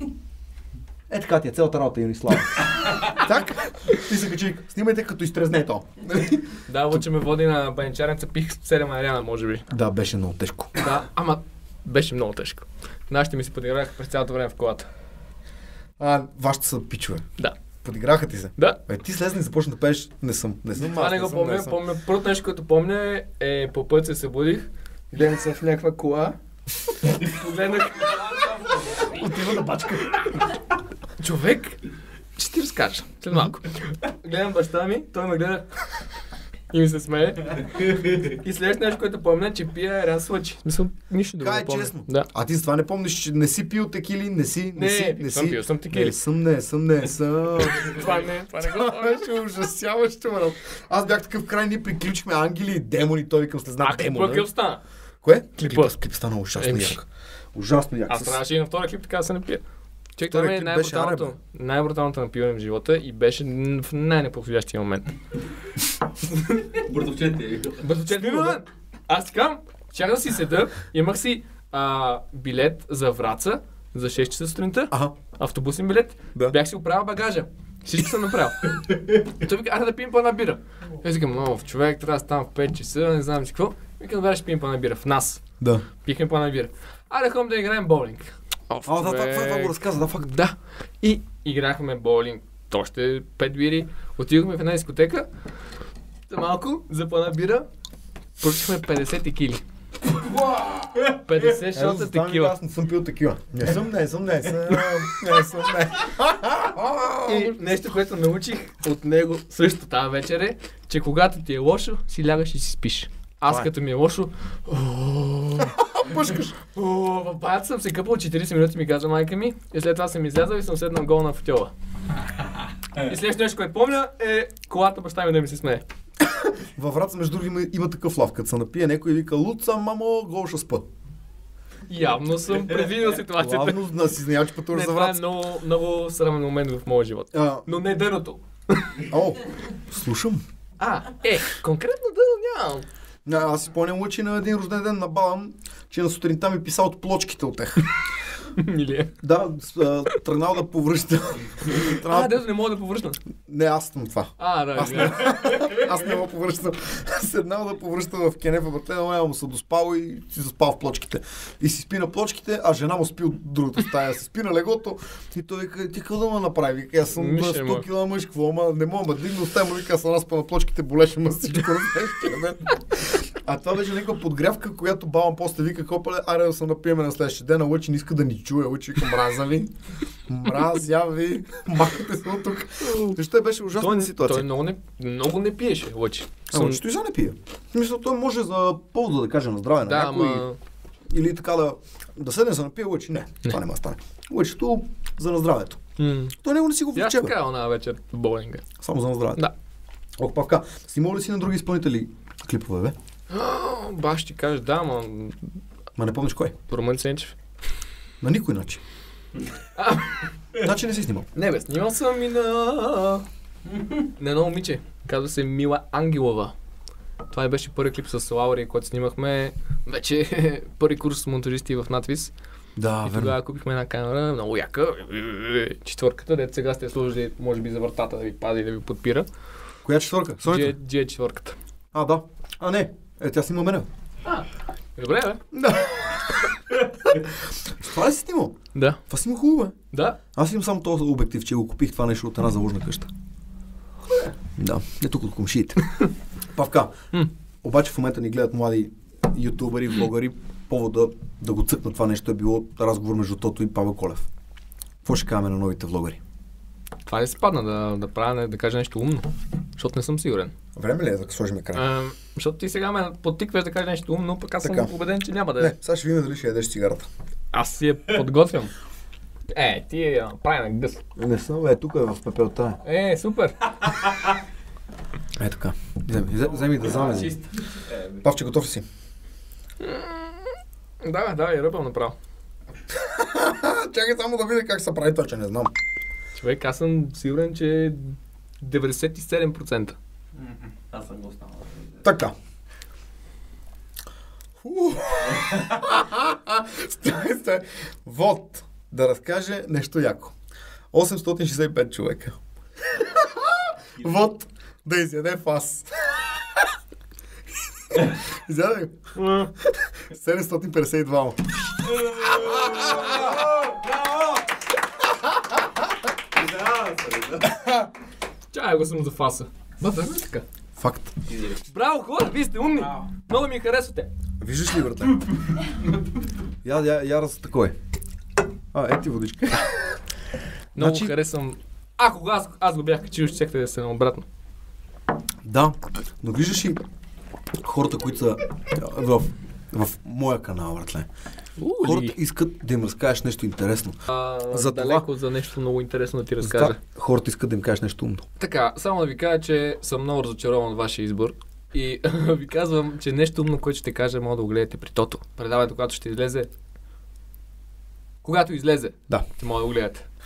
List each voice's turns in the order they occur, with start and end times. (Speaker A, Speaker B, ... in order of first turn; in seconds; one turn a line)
Speaker A: 1.1-6.6
Speaker B: 6.7-9.7
Speaker A: 9.7-10.8
Speaker B: 10.8-14.9
Speaker A: 16.0-17.3
Speaker A: 17.8-21.8
Speaker B: 20.7-26.4
Speaker B: 27.1-29.2
Speaker A: 29.0-30.4
Speaker B: 31.2-31.8
Speaker B: 32.4-35.8
Speaker A: 33.3-33.6
Speaker B: 36.7-42.3
Speaker A: 41.4-54.5
Speaker B: 44.7-46.2
Speaker B: 47.7-49.5
Speaker B: 53.8-54.8
Speaker A: 55.2-58.4
Speaker B: 55.6-56.0
Speaker B: 56.6-57.0
Speaker B: 58.1-59.6
Speaker B: 60.2-65.1
Speaker A: 60.3-61.3
Speaker B: 66.2-66.8
Speaker C: 66.8-67.8
Speaker B: 67.8-85.5
Speaker A: 68.1-68.6
Speaker B: 86.0-95.3
Speaker A: 88.8-90.3
Speaker B: 96.3-97.7
Speaker B: 98.4-99.6
Speaker A: 100.1-101.1
Speaker B: 101.1-102.5
Speaker A: 101.7-107.5
Speaker B: 107.2-115.8
Speaker A: 115.6-116.5
Speaker B: 116.6-121.7
Speaker B: 123.0-125.8
Speaker A: 126.3-130.9
Speaker B: 131.9-133.8
Speaker A: 133.3-135.2
Speaker B: 134.7-139.1
Speaker A: 137.3-137.7
Speaker A: 139.1-140.4
Speaker B: 140.8-142.8
Speaker A: 143.3-147.9
Speaker B: 148.6-149.2
Speaker A: 149.2-152.4
Speaker B: 151.8-153.2
Speaker A: 153.4-179.7
Speaker B: 154.4-155.4
Speaker B: 167.2-167.9
Speaker A: 180.3-184.5
Speaker B: 182.8-183.2
Speaker B: 183.7-186.8
Speaker A: 186.5-190.4
Speaker B: 189.8-190.6
Speaker A: 191.1-195.8
Speaker B: 196.0-196.3
Speaker A: 196.3-197.3
Speaker B: 196.9-198.7
Speaker A: 198.8-199.4
Speaker A: 200.2-202.9
Speaker B: 203.3-205.4
Speaker A: 206.0-206.6
Speaker B: 206.7-207.3
Speaker A: 208.2-208.8
Speaker B: 209.8-210.3
Speaker A: 210.6-211.3
Speaker B: 211.3-213.2
Speaker B: 213.9-216.5
Speaker B: 217.3-222.3
Speaker A: 222.8-223.4
Speaker B: 223.1-229.3
Speaker A: 229.8-230.8
Speaker B: 230.4-231.6
Speaker A: 231.9-233.9
Speaker B: 235.0-235.4
Speaker A: 235.5-236.5
Speaker A: 237.1-238.6
Speaker B: 238.7-239.0
Speaker A: 239.1-239.8
Speaker B: 239.9-240.2
Speaker A: 240.3-243.1
Speaker A: 244.6-245.9
Speaker A: 246.5-247.0
Speaker A: 247.6-254.3
Speaker A: 255.1-256.2
Speaker B: 257.1-260.5
Speaker A: 260.8-261.8
Speaker B: 261.7-265.7
Speaker A: 264.6-264.9
Speaker A: 265.6-267.1
Speaker B: 267.5-268.7
Speaker B: 269.5-271.0
Speaker A: 271.2-272.8
Speaker B: 272.8-274.2
Speaker A: 275.4-277.4
Speaker C: 276.9-278.2
Speaker A: 278.2-278.8
Speaker B: 279.8-282.1
Speaker A: 282.9-285.7
Speaker B: 286.3-290.0
Speaker C: 290.4-292.0
Speaker A: 292.0-292.3
Speaker A: 294.6-300.3
Speaker C: 295.4-295.8
Speaker A: 300.9-302.4
Speaker A: 302.9-306.3
Speaker A: 307.9-309.1
Speaker B: 309.2-309.5
Speaker A: 309.7-314.4
Speaker C: 312.3-313.3
Speaker A: 315.1-315.6
Speaker C: 316.4-317.6
Speaker B: 318.5-320.4
Speaker A: 320.8-321.2
Speaker B: 321.4-324.1
Speaker A: 324.4-325.3
Speaker A: 326.6-327.8
Speaker A: 328.7-329.9
Speaker A: 330.8-331.1
Speaker B: 330.8-334.2
Speaker A: 335.4-336.8
Speaker A: 337.6-341.1
Speaker B: 341.6-342.2
Speaker A: 341.8-345.1
Speaker B: 344.1-346.8
Speaker A: 346.4-348.2
Speaker B: 348.4-356.5
Speaker B: 358.2-360.1